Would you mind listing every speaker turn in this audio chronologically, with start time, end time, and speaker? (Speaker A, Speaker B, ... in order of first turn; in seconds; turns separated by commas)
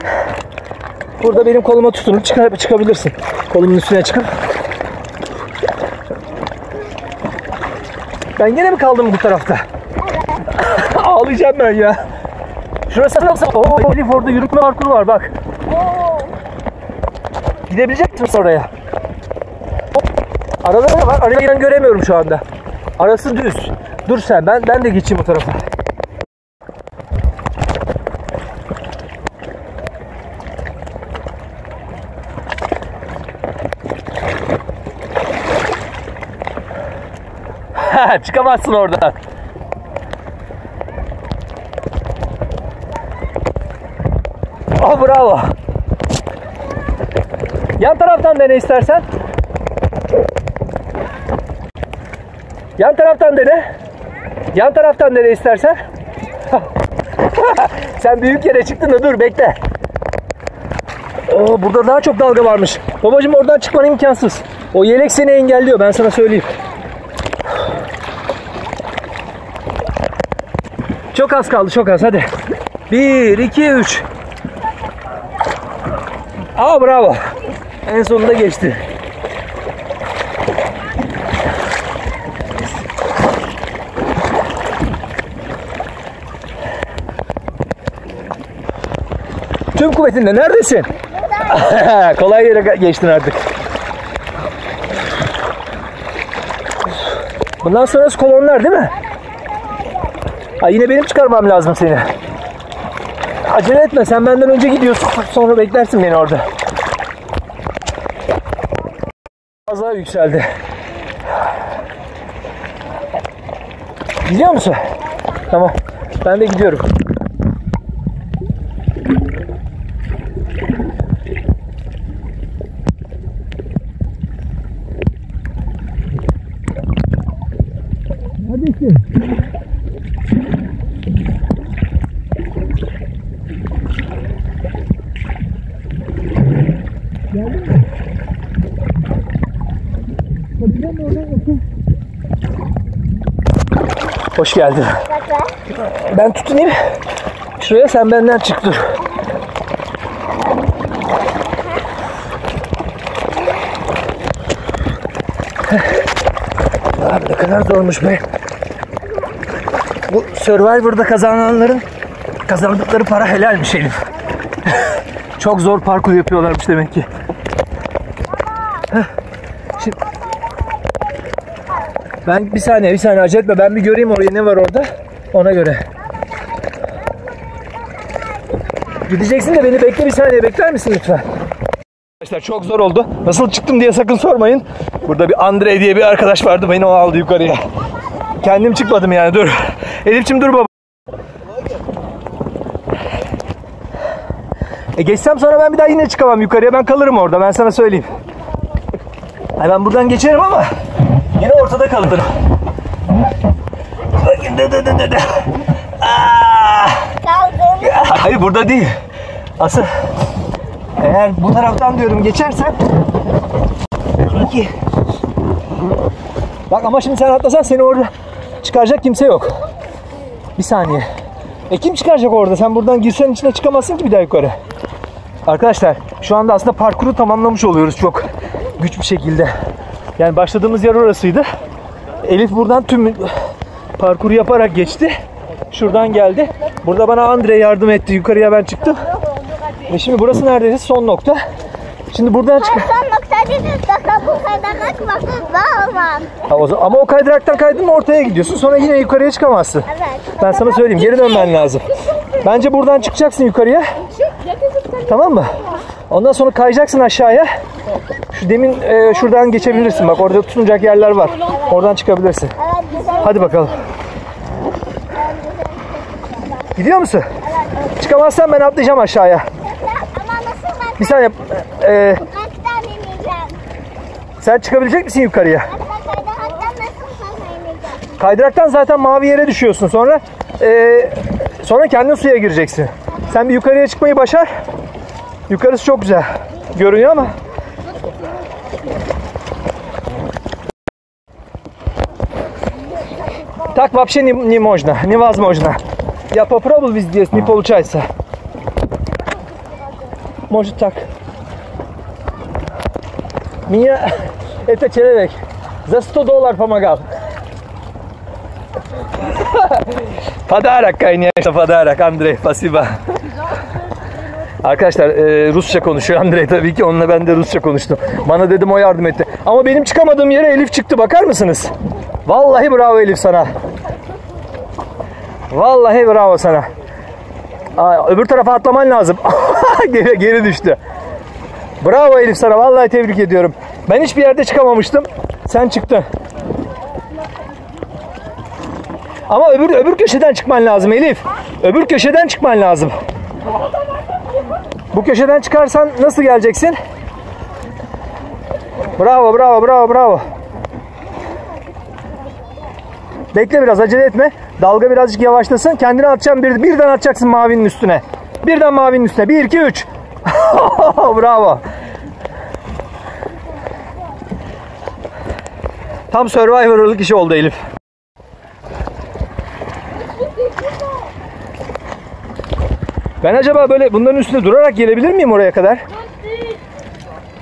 Speaker A: 1.2-4.4, Speaker A: 8.4-9.7, Speaker B: 10.1-10.4, Speaker A: 10.5-12.1, Speaker A: 12.9-15.3, Speaker B: 15.7-16.3, Speaker A: 17.7-18.7, Speaker A: 20.6-22.4, Speaker A: 23.0-25.6, Speaker A: 37.8-39.2, Speaker A: 44.8-45.5, Speaker A: 47.8-49.0, Speaker A: 52.8-53.7, Speaker A: 54.5-55.8, Speaker A: 57.2-59.6, Speaker A: 61.3-66.5, Speaker A: 71.1-72.3, Speaker A: 72.9-74.0, Speaker A: 76.5-77.2, Speaker A: 77.8-78.8, Speaker A: 89.7-90.9, Speaker B: 91.1-91.6, Speaker A: 91.4-93.4, Speaker A: 97.6-98.9, Speaker B: 99.3-100.1, Speaker A: 100.6-102.1, Speaker A: 103.4-106.5, Speaker A: 109.7-110.5, Speaker A: 114.2-114.9, Speaker A: 115.5-116.9, Speaker A: 128.5-129.0, Speaker A: 140.8-141.5, Speaker A: 144.4-145.1, Speaker B: 145.1-145.6, Speaker A: 145.7-146.8, Speaker A: 147.6-148.9, Speaker A: 155.7-156.0, Speaker A: 157.0-158.2, Speaker A: 160.1-161.8, Speaker A: 162.5-164.0, Speaker A: 164.7-167.1, Speaker A: 172.2-175.9, Speaker A: 179.1-181.2, Speaker A: 182.2-187.6, Speaker A: 188.4-190.7, Speaker A: 195.0-198.1, Speaker A: 199.6-200.7, Speaker A: 201.4-202.3, Speaker A: 204.2-207.2, Speaker B: 207.2-208.0, Speaker A: 207.8-208.9, Speaker A: 209.6-209.9, Speaker A: 211.0-212.8, Speaker A: 214.3-214.7, Speaker A: 216.7-219.6, Speaker A: 220.6-221.1, Speaker A: 221.7-224.6, Speaker A: 225.5-228.3, Speaker A: 228.8-229.5, Speaker A: 230.2-231.5, Speaker A: 232.2-233.4, Speaker A: 234.0-235.1, Speaker A: 235.7-239.1, Speaker B: 239.2-239.8, Speaker A: 239.9-241.4, Speaker A: 242.1-242.9, Speaker B: 242.5-246.3, Speaker A: 246.4-253.9, Speaker B: 249.9-251.5, Speaker A: 254.9-255.6, Speaker A: 256.1-257.5, Speaker A: 258.3-262.5, Speaker B: 261.4-262.0, Speaker B: 262.6-263.8, Speaker A: 263.2-263.8, Speaker B: 265.1-266.7, Speaker A: 266.8-267.3, Speaker B: 267.4-268.0, Speaker A: 268.0-269.5, Speaker B: 269.6-271.3, Speaker A: 271.0-272.2, Speaker B: 272.1-273.6, Speaker A: 274.4-275.7, Speaker B: 275.7-278.2, Speaker A: 278.2-284.5, Speaker A: 285.5-287.4, Speaker A: 293.7-295.8, Speaker A: 296.3-298.1, Speaker A: 300.5-301.1, Speaker A: 303.7-307.1, Speaker A: 309.3-313.0, Speaker A: 314.6-321.7, Speaker A: 322.3-323.5, Speaker A: 325.5-326.7, Speaker A: 327.8-330.8, Speaker A: 331.8-336.1, Speaker A: 339.3-342.9, Speaker A: 344.9-346.8, Speaker A: 349.0-350.3, Speaker A: 353.3-361.6, Speaker A: 366.1-367.6, Speaker A: 373.2-375.8